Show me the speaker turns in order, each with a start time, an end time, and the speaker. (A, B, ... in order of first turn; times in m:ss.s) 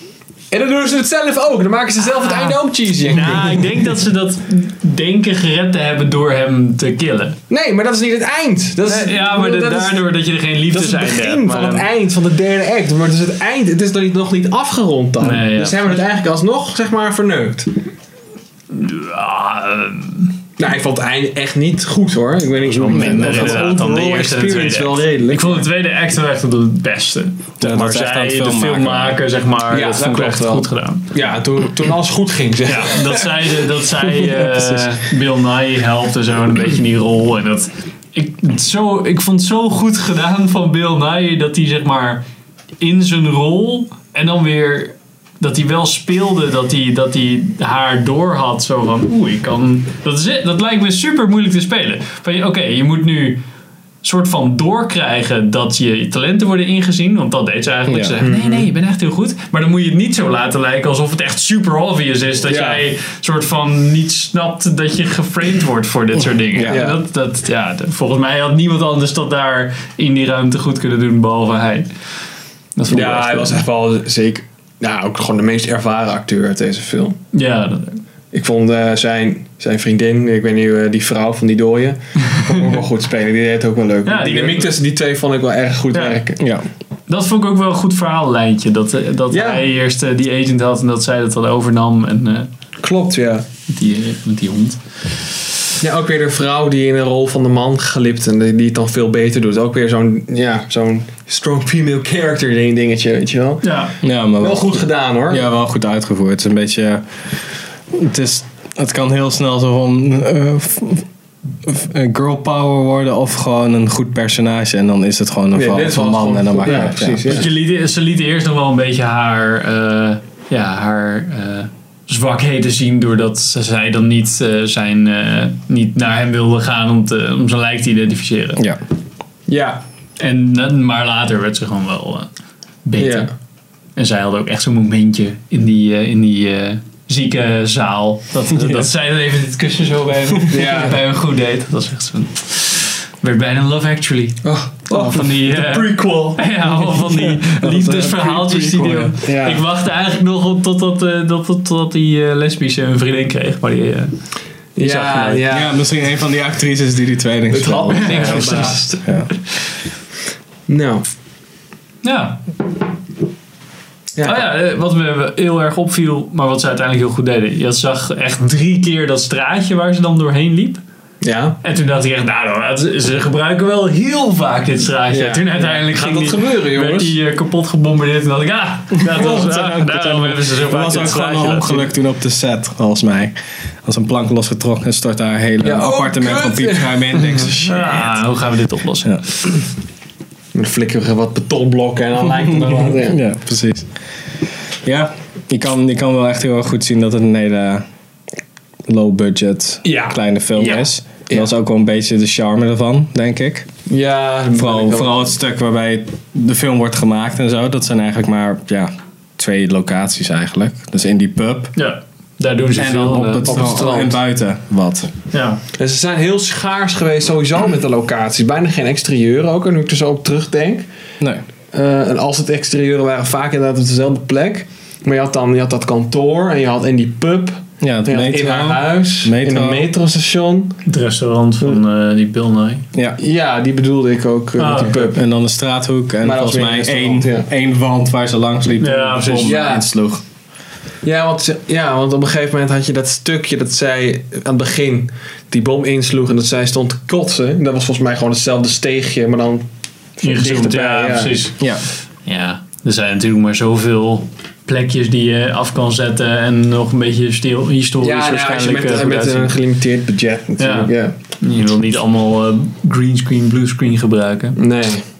0:00.5-0:03.6 A
0:02.0-0:07.4 B
0:07.5-0:10.1 A
0:08.8-0:11.9 B
0:10.7-0:17.7 A
0:15.2-0:16.0 B
0:18.7-0:20.4 B
0:20.6-0:25.7 A
0:22.7-0:31.1 B
0:22.8-0:23.6 C
0:27.6-0:29.2 C
0:29.7-0:33.1 A
0:32.6-0:42.2 B
0:34.0-0:34.9 C
0:42.8-0:53.4 B
0:54.0-1:11.9 B
0:57.9-0:58.2 C
0:58.2-0:58.7 A
1:02.4-1:02.8 A
1:06.5-1:06.9 C
1:06.7-1:07.0 A
1:12.8-1:13.6 B
1:12.9-1:17.2 A
1:17.3-1:18.0 B
1:18.3-1:26.4 A
1:24.0-1:24.7 B
1:25.9-1:26.2 B
1:26.4-1:26.6 C
1:27.1-1:32.5 B
1:29.3-1:29.7 A
1:32.8-1:33.4 A
1:33.7-1:34.8 B
1:35.8-1:43.7 A
1:43.6-1:44.0 B
1:44.0-1:47.0 C
1:44.4-1:45.5 A
1:47.9-1:51.0 C
1:51.6-1:57.5 C
1:55.5-1:57.5 A
1:56.7-2:08.6 B
2:09.5-2:09.8 A
2:10.2-2:12.3 B
2:12.8-2:13.3 B
2:13.0-2:13.3 A
2:14.0-2:24.4 B
2:18.6-2:18.9 C
2:20.5-2:21.0 A
2:24.4-2:26.4 A
2:24.9-2:34.1 B
2:24.9-2:25.2 C
2:26.7-2:29.1 C
2:29.2-2:29.6 A
2:34.8-2:35.7 A
2:34.8-2:39.3 C
2:37.5-2:39.0 A
2:37.9-2:38.8 B
2:40.7-2:41.0 A
2:42.0-2:42.4 B
2:44.2-2:44.5 A
2:44.2-2:50.8 B
2:51.2-2:51.6 A
2:51.6-3:01.9 B
2:55.1-2:57.2 A
2:59.0-3:08.1 C
3:05.6-3:08.1 A
3:07.6-3:09.5 B
3:10.5-3:13.2 A
3:12.9-3:13.9 C
3:14.8-3:17.8 C
3:18.9-3:23.7 C
3:19.8-3:21.5 A
3:20.6-3:20.9 B
3:23.9-3:25.3 A
3:24.6-3:31.7 C
3:31.7-3:33.7 B
3:32.8-3:35.1 C
3:33.4-3:34.2 A
3:35.3-3:35.6 B
3:35.8-3:40.8 A
3:41.7-3:50.8 A
3:47.8-3:49.9 C
3:50.8-3:52.8 B
3:53.2-3:55.2 A
3:54.6-3:55.0 B
3:55.1-4:00.2 C
3:56.2-3:57.5 A
3:58.8-3:59.6 B
3:59.3-3:59.8 A
4:01.0-4:09.6 A
4:10.2-4:11.4 A
4:10.2-4:11.6 B
4:12.2-4:19.6 B
4:18.0-4:21.1 A
4:20.6-4:24.6 B
4:24.6-4:25.0 A